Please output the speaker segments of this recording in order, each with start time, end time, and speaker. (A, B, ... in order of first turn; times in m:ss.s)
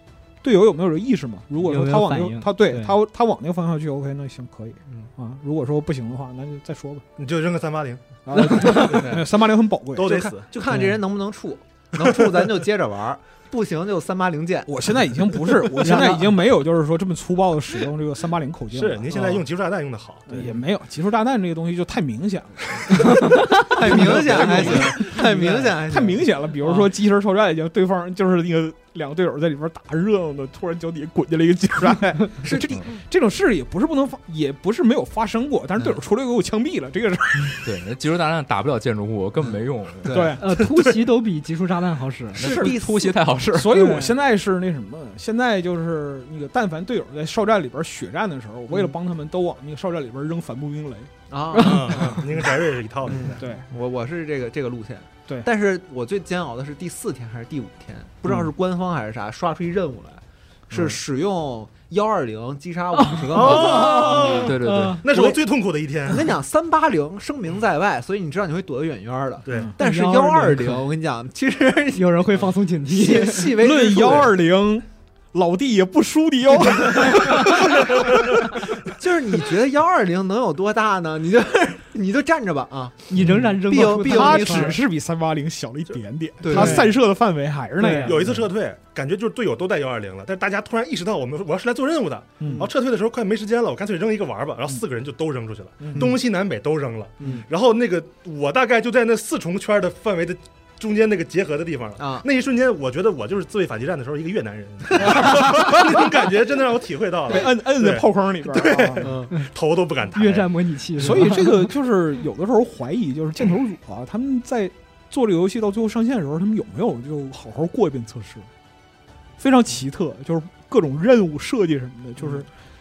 0:00.4-0:07.0 A
0:01.6-0:03.0 B
0:07.2-0:08.8 C
0:08.2-0:10.4 A
0:08.4-0:09.0 B
0:08.7-0:09.2 D
0:09.9-0:10.5 C
0:10.5-0:16.2 D
0:12.0-0:12.4 C
0:14.7-0:19.2 A
0:15.9-0:16.2 B
0:18.7-0:20.5 C
0:19.1-0:19.4 D
0:20.3-0:37.6 A
0:23.1-0:23.7 B
0:23.6-0:26.8 D
0:24.1-0:24.9 E
0:32.4-0:32.7 D
0:37.6-0:40.3 E
0:40.0-0:40.3 D
0:40.1-0:40.5 A
0:40.4-0:42.7 B
0:42.4-0:43.8 E
0:42.4-0:43.2 D
0:43.5-0:51.1 A
0:43.7-0:44.2 B
0:51.3-0:52.3 D
0:51.6-0:53.4 C
0:53.0-1:04.5 D
0:53.4-0:53.6 A
1:03.1-1:05.1 B
1:03.3-1:06.3 C
1:04.2-1:05.1 E
1:05.1-1:05.4 D
1:06.0-1:14.3 D
1:09.4-1:09.8 C
1:09.8-1:10.8 B
1:11.9-1:13.6 B
1:13.5-1:18.3 A
1:18.8-1:24.8 D
1:23.1-1:24.8 B
1:24.0-1:28.3 A
1:26.4-1:26.9 D
1:26.5-1:26.9 B
1:27.8-1:28.2 B
1:28.0-1:50.5 C
1:32.4-1:32.6 A
1:32.4-1:32.7 D
1:35.8-1:36.1 A
1:37.2-1:37.4 D
1:42.0-1:42.2 D
1:45.4-1:45.6 A
1:47.3-1:49.1 A
1:49.0-1:49.3 D
1:50.1-1:51.7 B
1:51.0-1:58.5 A
1:59.4-2:02.5 A